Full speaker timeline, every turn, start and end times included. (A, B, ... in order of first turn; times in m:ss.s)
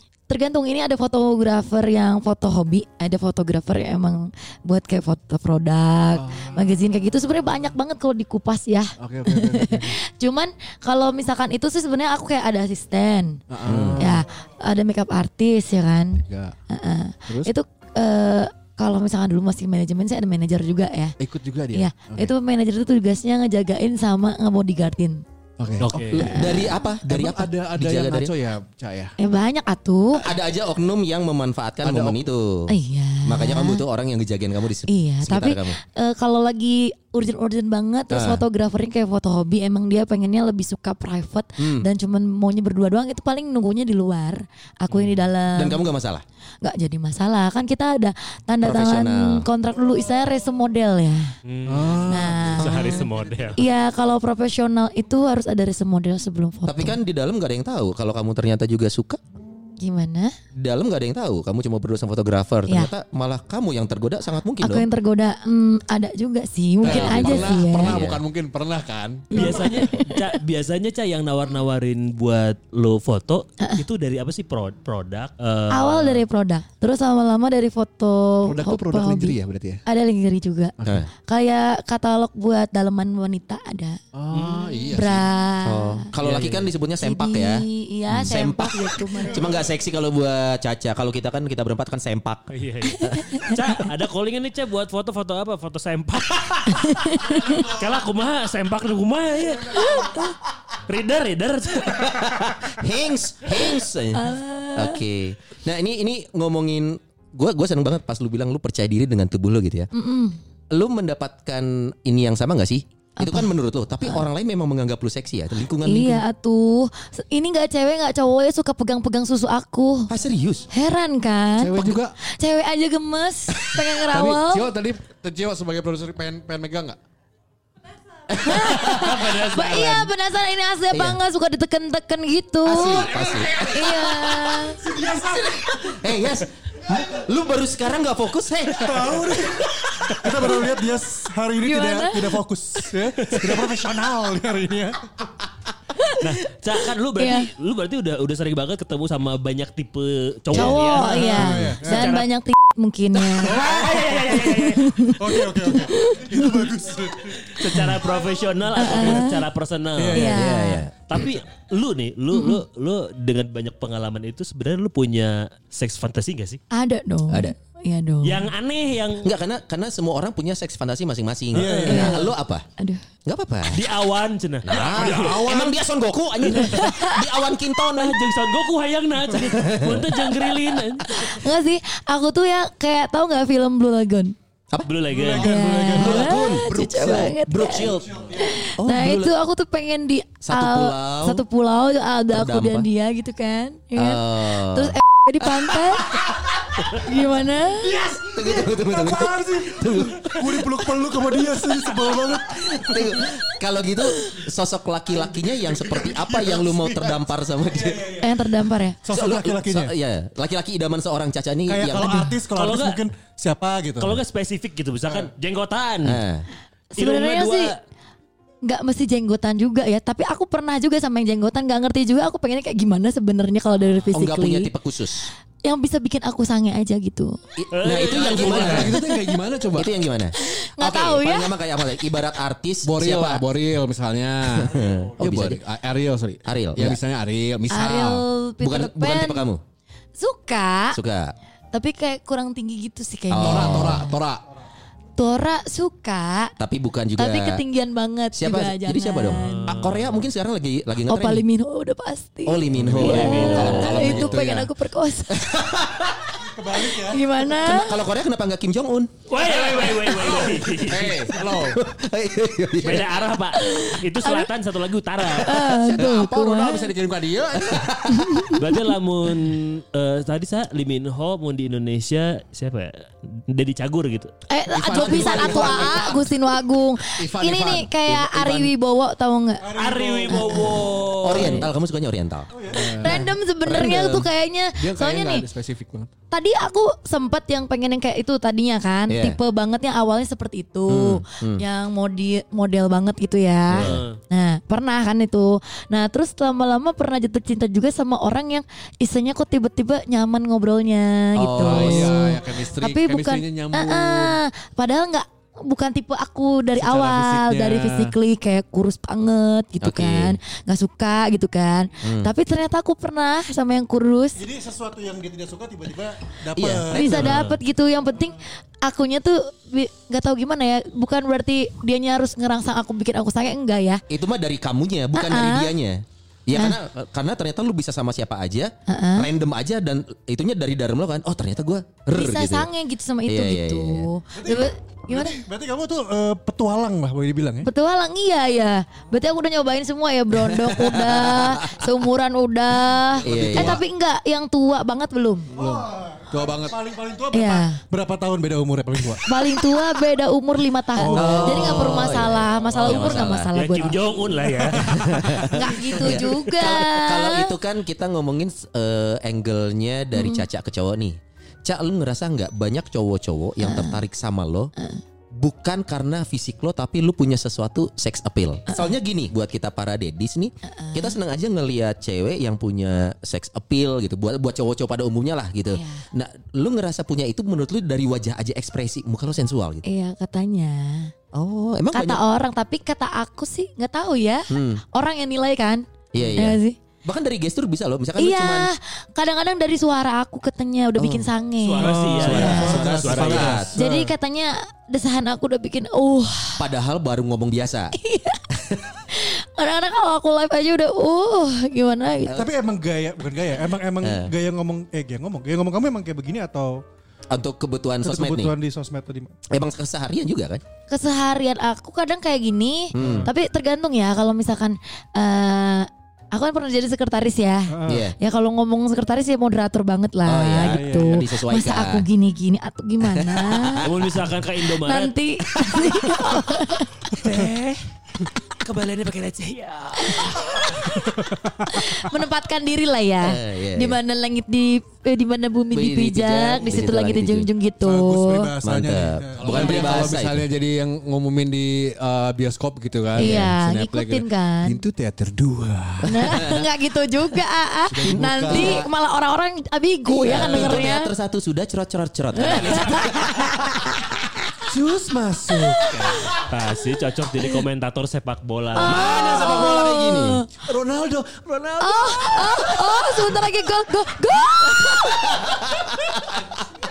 0:00.3-0:13.4 A
0:06.1-0:06.7 B
0:09.0-0:09.9 B
0:13.5-0:14.2 B
0:13.6-0:14.1 C
0:14.0-0:21.2 A
0:16.2-0:16.6 B
0:21.2-0:22.3 B
0:21.7-0:25.2 A
0:25.6-0:29.1 B
0:25.8-0:26.3 D
0:26.1-0:28.3 C
0:26.2-0:26.8 A
0:29.2-0:30.2 A
0:30.2-0:32.7 C
0:31.8-0:32.2 B
0:32.7-0:33.8 A
0:33.2-0:35.8 C
0:34.9-0:45.8 A
0:38.1-0:38.4 C
0:41.6-0:41.9 C
0:45.6-0:46.2 C
0:46.6-0:51.3 A
0:48.6-0:49.4 C
0:51.4-0:53.6 D
0:51.6-0:53.6 B
0:52.1-0:53.0 A
0:52.6-0:53.0 C
0:53.6-0:57.0 A
0:56.6-0:59.2 C
0:59.8-1:00.4 A
1:00.5-1:04.9 C
1:02.7-1:02.9 A
1:04.6-1:08.0 A
1:06.8-1:08.2 C
1:06.8-1:09.6 B
1:09.3-1:10.4 A
1:09.3-1:16.2 D
1:15.7-1:20.7 A
1:18.4-1:19.8 B
1:20.8-1:21.1 C
1:21.3-1:24.0 A
1:24.1-1:25.3 B
1:24.3-1:24.8 D
1:24.9-1:26.1 A
1:25.6-1:32.5 C
1:26.2-1:26.7 D
1:26.2-1:26.5 B
1:27.0-1:29.6 A
1:32.5-1:40.3 D
1:33.0-1:33.6 A
1:36.7-1:37.7 A
1:39.7-1:40.2 A
1:40.8-1:42.6 D
1:41.9-1:49.9 C
1:44.1-1:45.0 A
1:49.9-1:50.4 A
1:50.7-1:56.2 C
1:53.2-1:53.5 A
1:55.8-2:00.1 A
2:00.1-2:00.7 C
2:00.7-2:04.7 A
2:01.6-2:02.1 B
2:04.1-2:07.0 B
2:08.3-2:08.8 C
2:08.3-2:13.1 A
2:08.7-2:10.1 D
2:10.9-2:11.2 C
2:12.6-2:13.7 C
2:12.8-2:14.5 B
2:13.6-2:14.8 A
2:14.6-2:16.0 E
2:15.8-2:19.4 C
2:18.8-2:25.1 E
2:21.6-2:22.4 A
2:25.9-2:26.3 A
2:26.2-2:32.3 D
2:27.2-2:27.5 A
2:30.5-2:33.7 A
2:30.5-2:32.1 E
2:33.4-2:38.1 E
2:33.4-2:34.9 D
2:34.4-2:36.7 A
2:37.3-2:40.4 D
2:38.7-2:39.4 A
2:38.8-2:39.4 E
2:40.0-2:40.5 E
2:40.1-2:40.8 A
2:40.2-2:41.0 C
2:41.1-2:46.6 D
2:42.3-2:42.6 A
2:46.7-2:48.5 A
2:47.3-2:47.6 C
2:48.2-2:49.3 D
2:49.2-2:52.6 C
2:51.5-2:52.2 E
2:51.8-2:53.0 A
2:53.2-2:53.8 C
2:53.7-2:55.6 D
2:54.6-2:58.2 C
2:54.7-2:55.8 B
2:56.5-2:57.2 A
2:58.0-3:01.3 D
2:59.4-3:00.2 C
3:01.1-3:04.3 A
3:04.9-3:05.6 D
3:05.1-3:06.5 E
3:05.4-3:18.2 A
3:05.9-3:09.3 C
3:08.1-3:08.6 E
3:10.4-3:11.4 C
3:12.3-3:12.9 C
3:13.9-3:14.9 C
3:17.8-3:23.2 E
3:18.3-3:20.7 C
3:22.6-3:28.2 C
3:25.5-3:28.4 E
3:28.2-3:29.0 A
3:29.0-3:29.9 E
3:29.1-3:32.4 C
3:31.7-3:34.2 E
3:32.5-3:33.0 D
3:34.0-3:36.2 D
3:36.0-3:36.4 C
3:36.9-3:37.7 A
3:37.0-3:37.8 D
3:38.6-3:44.7 A
3:44.1-3:45.3 C
3:45.6-3:47.4 A
3:47.6-3:49.0 C
3:47.7-3:48.9 D
3:47.9-3:49.9 B
3:48.9-3:49.4 A
3:49.7-3:53.5 C
3:50.4-3:51.6 A
3:52.8-3:58.2 B
3:54.5-3:55.6 C
3:56.4-3:57.0 C
3:57.7-3:59.5 A
3:58.6-3:59.6 C
4:00.2-4:01.0 A
4:00.9-4:01.3 C
4:01.7-4:04.2 A
4:03.3-4:04.1 C
4:03.4-4:04.4 B
4:05.2-4:06.5 A
4:06.6-4:07.6 C
4:07.2-4:09.7 A
4:08.3-4:11.4 C
4:09.4-4:10.2 D
4:11.1-4:15.6 A
4:12.4-4:14.6 C
4:12.7-4:14.2 B
4:12.9-4:14.4 D
4:15.3-4:16.5 C
4:16.4-4:17.4 E
4:16.8-4:18.0 A
4:17.5-4:19.2 C
4:19.3-4:21.2 D
4:19.4-4:21.8 B
4:21.4-4:23.2 C
4:22.8-4:25.7 D
4:23.5-4:24.5 A
4:25.3-4:26.9 A
4:25.8-4:28.0 B
4:27.6-4:28.5 C
4:28.1-4:28.7 A
4:28.6-4:34.3 D
4:34.5-4:39.7 A
4:34.7-4:36.3 B
4:35.4-4:35.7 C
4:37.1-4:37.9 B
4:38.1-4:38.7 C
4:39.6-4:40.8 E
4:39.7-4:41.7 D
4:40.3-4:41.6 A
4:41.2-4:44.3 C
4:42.5-4:42.9 E
4:42.7-4:43.2 B
4:42.7-4:45.4 A
4:44.8-4:46.1 B
4:46.3-5:14.4 A
4:49.1-4:49.4 C
4:50.9-4:51.6 C
4:53.7-4:54.0 C
4:53.7-4:54.2 D
5:01.4-5:02.1 C
5:01.5-5:04.4 B
5:06.7-5:08.1 B
5:09.8-5:10.4 C
5:12.0-5:12.3 C
5:14.4-5:17.4 E
5:16.5-5:17.3 C
5:16.9-5:24.0 A
5:17.1-5:17.6 D
5:24.1-5:32.7 C
5:25.1-5:25.7 A
5:28.9-5:29.3 A
5:32.1-5:35.4 A
5:33.2-5:34.1 C
5:34.4-5:37.7 E
5:37.6-5:45.5 A
5:40.5-5:41.8 C
5:43.2-5:43.8 B
5:43.2-5:43.8 C
5:45.6-5:46.8 B
5:45.6-5:49.7 E
5:47.3-5:47.8 A
5:49.2-5:54.0 A
5:50.9-5:52.2 E
5:51.1-5:53.5 C
5:53.5-5:55.1 D
5:54.3-5:54.6 E
5:54.8-6:04.7 C
5:55.4-5:57.5 A
6:00.1-6:00.4 A
6:03.6-6:04.0 A
6:04.8-6:05.0 A
6:05.4-6:19.8 C
6:08.7-6:08.9 A
6:10.6-6:11.2 A
6:15.7-6:16.0 A
6:19.8-6:21.1 A
6:21.3-6:22.2 C
6:21.9-6:25.8 A
6:24.5-6:24.8 C
6:26.1-6:28.7 C
6:26.4-6:26.8 A
6:28.2-6:32.8 A
6:31.0-6:31.3 C
6:31.6-6:33.6 D
6:31.8-6:34.1 E
6:32.1-6:33.7 C
6:32.8-6:33.7 B
6:33.7-6:36.6 A
6:36.6-6:37.9 C
6:37.9-6:38.4 A
6:39.1-6:42.4 A
6:42.3-6:46.8 E
6:44.0-6:44.3 C
6:47.3-6:48.5 C
6:48.0-6:49.3 E
6:49.5-6:50.6 C
6:50.9-7:03.9 A
6:52.9-6:53.3 C
6:52.9-6:53.3 E
6:57.7-6:58.1 E
6:57.9-6:58.1 C
7:00.2-7:02.1 C
7:00.6-7:01.2 E
7:03.0-7:04.1 C
7:03.8-7:05.1 D
7:04.6-7:07.1 A
7:07.2-7:07.8 D
7:08.5-7:10.5 D
7:10.0-7:18.5 A
7:13.2-7:14.0 C
7:15.7-7:17.5 C
7:17.8-7:19.7 E
7:18.6-7:20.4 C
7:19.4-7:26.5 B
7:23.2-7:23.5 C
7:23.2-7:24.8 A
7:26.1-7:31.1 A
7:26.1-7:26.6 C
7:27.9-7:28.9 B
7:28.0-7:28.9 C
7:30.1-7:34.0 C
7:30.4-7:30.8 B
7:32.4-7:34.1 A
7:34.7-7:36.3 B
7:36.4-7:39.0 D
7:38.7-7:40.5 A
7:38.8-7:39.8 B
7:38.8-7:40.4 C
7:40.6-7:43.4 B
7:41.8-7:45.4 A
7:45.4-7:46.1 C
7:46.2-7:46.6 B